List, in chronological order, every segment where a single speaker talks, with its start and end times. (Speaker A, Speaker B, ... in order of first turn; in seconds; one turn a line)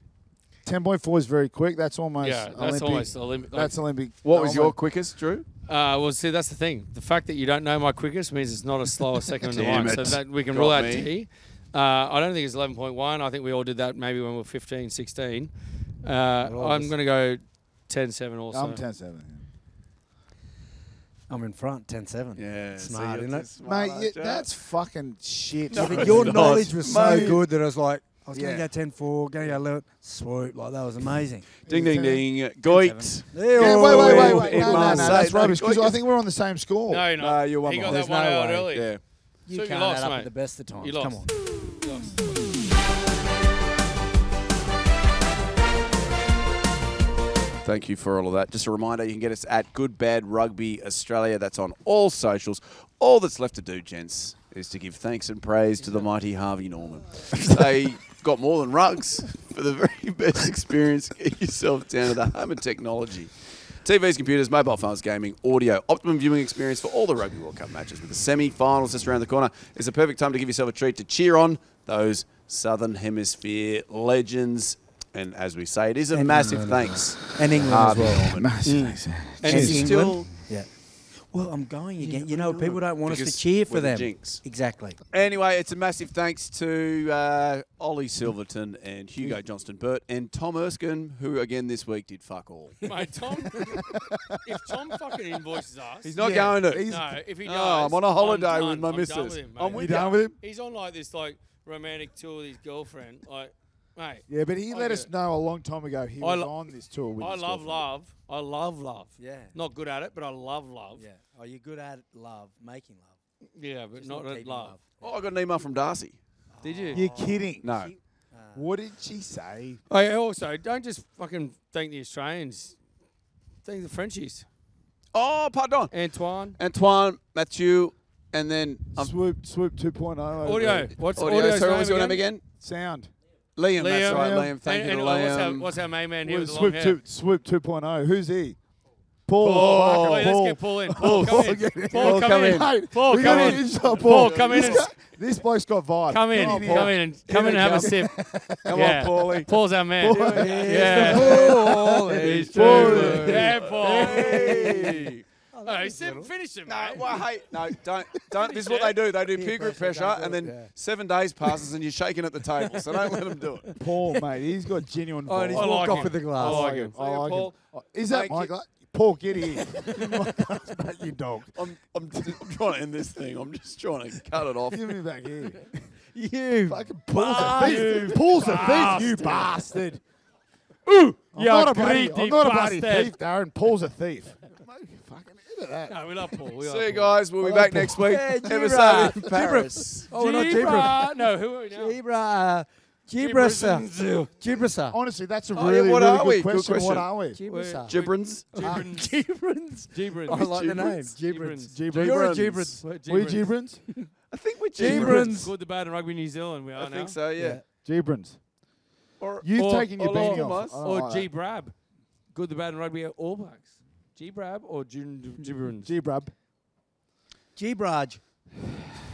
Speaker A: 0.6-4.8
Speaker B: 2.2-3.7
Speaker C: 4.2-5.5
Speaker B: 5.7-18.8
Speaker C: 9.4-11.1
Speaker D: 16.4-16.9
Speaker A: 18.5-19.4
Speaker D: 21.3-23.5
Speaker C: 22.4-24.5
Speaker A: 23.6-27.4
Speaker C: 25.7-27.4
Speaker D: 25.7-31.5
Speaker A: 28.3-28.7
Speaker A: 31.7-32.2
Speaker C: 31.7-36.0
Speaker D: 32.6-35.5
Speaker A: 33.5-37.1
Speaker B: 36.9-42.1
Speaker C: 37.2-38.0
Speaker D: 37.9-38.7
Speaker C: 38.7-39.0
Speaker D: 39.5-41.3
Speaker C: 47.6-78.7
Speaker D: 76.1-78.3
Speaker A: 78.3-80.1
Speaker B: 78.6-80.1
Speaker D: 79.5-85.0
Speaker C: 79.5-80.3
Speaker C: 82.0-84.4
Speaker C: 85.1-92.8
Speaker B: 92.8-105.1
Speaker A: 93.6-94.4
Speaker C: 96.0-96.9
Speaker A: 96.1-97.2
Speaker C: 97.4-100.2
Speaker A: 99.7-100.3
Speaker A: 104.3-107.9
Speaker B: 106.2-106.5
Speaker B: 107.2-111.0
Speaker D: 109.2-109.5
Speaker D: 111.0-113.2
Speaker B: 113.5-114.8
Speaker D: 114.0-114.9
Speaker C: 115.0-116.2
Speaker D: 116.5-118.6
Speaker B: 116.6-117.0
Speaker A: 116.9-117.7
Speaker C: 117.6-117.9
Speaker A: 118.5-119.8
Speaker B: 119.9-122.8
Speaker B: 123.6-124.5
Speaker C: 125.1-125.9
Speaker B: 125.9-126.6
Speaker C: 126.5-129.1
Speaker A: 129.0-131.0
Speaker B: 130.4-132.2
Speaker C: 131.1-132.4
Speaker A: 132.6-133.1
Speaker C: 133.6-135.8
Speaker B: 133.8-137.0
Speaker A: 134.0-134.5
Speaker A: 136.2-138.6
Speaker A: 139.2-147.0
Speaker B: 139.4-144.9
Speaker C: 139.4-140.4
Speaker C: 141.0-144.9
Speaker B: 146.1-148.1
Speaker C: 146.3-148.0
Speaker A: 147.6-148.8
Speaker C: 148.6-155.2
Speaker B: 148.7-151.6
Speaker A: 150.0-155.1
Speaker D: 150.2-156.3
Speaker B: 152.1-155.0
Speaker B: 155.6-157.2
Speaker C: 156.7-163.8
Speaker B: 158.3-159.0
Speaker D: 159.3-160.7
Speaker D: 163.7-164.1
Speaker A: 163.8-171.6
Speaker D: 165.2-166.7
Speaker B: 165.5-166.9
Speaker C: 166.9-167.5
Speaker C: 168.1-168.5
Speaker C: 171.5-174.9
Speaker A: 172.1-172.5
Speaker A: 174.7-175.9
Speaker D: 176.1-179.3
Speaker A: 176.7-180.0
Speaker B: 177.1-179.6
Speaker B: 180.8-183.1
Speaker A: 181.3-186.0
Speaker B: 185.9-187.2
Speaker C: 186.6-190.1
Speaker A: 187.4-189.2
Speaker D: 187.7-195.0
Speaker B: 190.1-192.0
Speaker B: 193.2-194.3
Speaker A: 194.9-197.4
Speaker B: 195.5-195.8
Speaker C: 195.5-197.1
Speaker D: 197.3-198.0
Speaker B: 197.5-199.1
Speaker C: 197.9-198.7
Speaker D: 198.5-202.8
Speaker B: 199.9-200.5
Speaker C: 200.3-201.2
Speaker B: 201.3-201.8
Speaker A: 201.7-203.8
Speaker C: 201.9-202.8
Speaker B: 202.8-203.5
Speaker C: 204.3-205.3
Speaker D: 204.7-205.5
Speaker B: 204.8-207.1
Speaker C: 206.8-207.6
Speaker D: 207.4-207.6
Speaker A: 207.8-208.4
Speaker C: 209.2-210.8
Speaker A: 209.4-211.3
Speaker B: 209.6-211.7
Speaker B: 212.3-215.9
Speaker A: 215.7-216.3
Speaker D: 217.6-218.2